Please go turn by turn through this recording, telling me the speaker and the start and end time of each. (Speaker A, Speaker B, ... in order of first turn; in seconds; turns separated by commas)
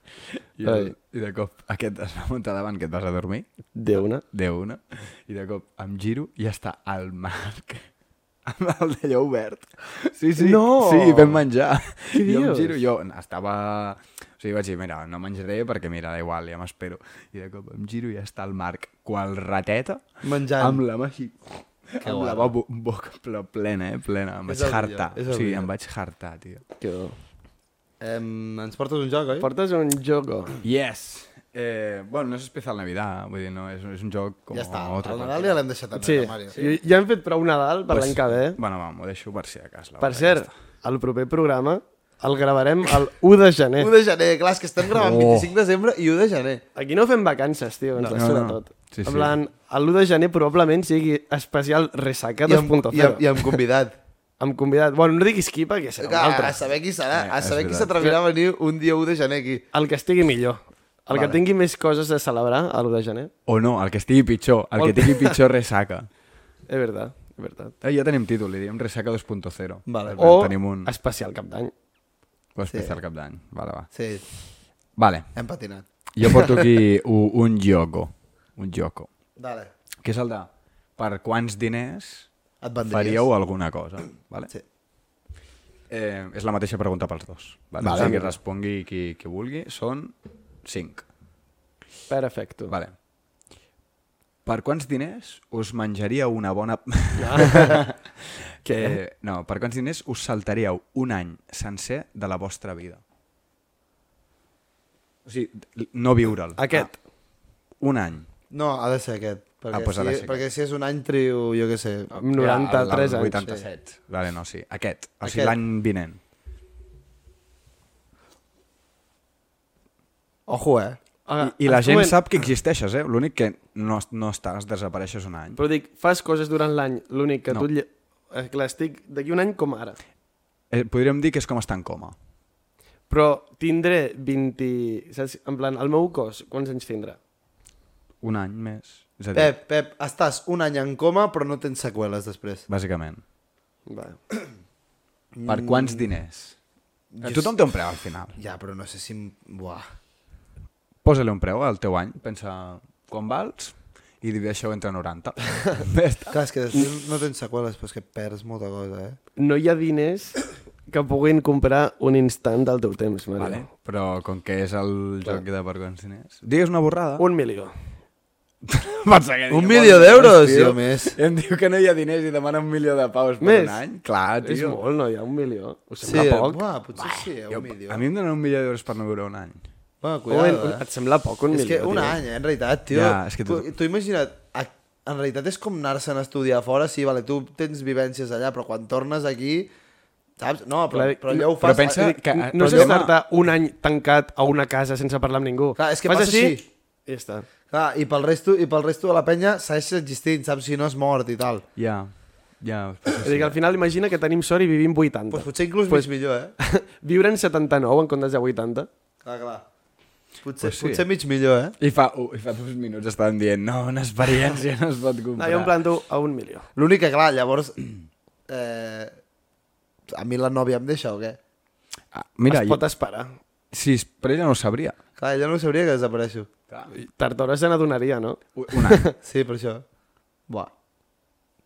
Speaker A: 0.6-3.5, Speaker B: 0.6-0.9, Speaker B: 3.7-4.2, Speaker A: 4.2-7.9, Speaker A: 8.4-26.6, Speaker B: 10.4-11.3, Speaker B: 12.1-12.8, Speaker C: 20.2-20.8, Speaker C: 22.0-22.5, Speaker C: 24.5-25.7, Speaker B: 26.8-27.2, Speaker C: 28.0-29.5, Speaker B: 29.4-30.6, Speaker A: 30.6-35.6, Speaker C: 34.5-36.6, Speaker B: 36.0-38.6, Speaker A: 36.5-36.8, Speaker A: 37.9-40.5, Speaker B: 40.0-43.9, Speaker C: 43.8-46.6, Speaker A: 44.9-45.5, Speaker B: 46.7-53.6, Speaker C: 48.0-48.3, Speaker A: 48.1-49.4, Speaker C: 52.5-53.9, Speaker B: 54.4-56.6, Speaker C: 56.0-59.6, Speaker A: 57.1-57.9, Speaker B: 59.7-63.3, Speaker C: 61.1-61.4, Speaker A: 63.5-66.1, Speaker B: 64.8-65.4, Speaker B: 66.7-67.7, Speaker A: 67.8-70.9, Speaker C: 69.9-70.2, Speaker B: 70.2-71.7, Speaker A: 72.5-73.9, Speaker C: 72.7-73.0, Speaker C: 73.9-74.2, Speaker A: 75.0-75.3, Speaker C: 75.3-75.8, Speaker A: 76.2-79.1, Speaker C: 79.4-79.7, Speaker A: 80.0-82.3, Speaker C: 82.6-83.2, Speaker A: 82.9-84.5, Speaker A: 85.9-91.0, Speaker C: 87.8-88.3, Speaker B: 87.9-88.3, Speaker B: 92.1-92.7, Speaker A: 94.4-103.0, Speaker B: 97.2-97.8, Speaker B: 98.7-99.0, Speaker A: 105.2-106.9, Speaker B: 106.6-106.9, Speaker A: 107.8-108.3, Speaker C: 108.5-112.1, Speaker A: 109.7-110.4, Speaker B: 112.1-113.5, Speaker A: 112.3-116.2, Speaker C: 115.2-115.5, Speaker C: 120.5-121.0, Speaker B: 121.2-122.2, Speaker A: 121.4-125.6, Speaker B: 125.5-130.0, Speaker A: 130.7-132.2, Speaker B: 133.1-137.2, Speaker A: 138.2-139.5, Speaker C: 139.3-142.7, Speaker A: 142.7-143.2, Speaker B: 143.9-144.2, Speaker C: 145.3-146.1, Speaker A: 145.4-146.6, Speaker C: 147.1-147.5, Speaker A: 147.2-148.4, Speaker C: 148.3-149.8, Speaker A: 151.0-156.4, Speaker C: 156.3-159.2, Speaker B: 159.3-163.7, Speaker A: 163.4-167.2, Speaker B: 167.2-167.7, Speaker A: 168.6-174.8, Speaker C: 169.5-171.2, Speaker B: 173.4-173.8, Speaker B: 174.4-176.6, Speaker C: 176.0-178.0, Speaker A: 176.9-179.6, Speaker C: 180.0-180.8, Speaker B: 180.3-182.2, Speaker C: 181.5-189.7, Speaker A: 182.9-183.7, Speaker C: 190.4-192.9, Speaker B: 190.9-197.5, Speaker A: 191.6-193.1, Speaker C: 195.8-196.7, Speaker C: 197.7-201.6, Speaker A: 201.8-203.6, Speaker B: 203.2-208.9, Speaker C: 205.3-206.5, Speaker C: 209.2-209.6, Speaker C: 210.4-211.7, Speaker A: 210.6-211.0, Speaker A: 211.8-215.7, Speaker B: 215.4-216.7, Speaker C: 216.8-219.1, Speaker C: 220.1-221.4, Speaker A: 222.1-222.8, Speaker B: 222.5-223.3, Speaker A: 223.7-224.9, Speaker C: 225.2-226.5, Speaker A: 226.7-227.0, Speaker B: 227.0-229.1, Speaker A: 228.5-229.1, Speaker C: 229.2-229.8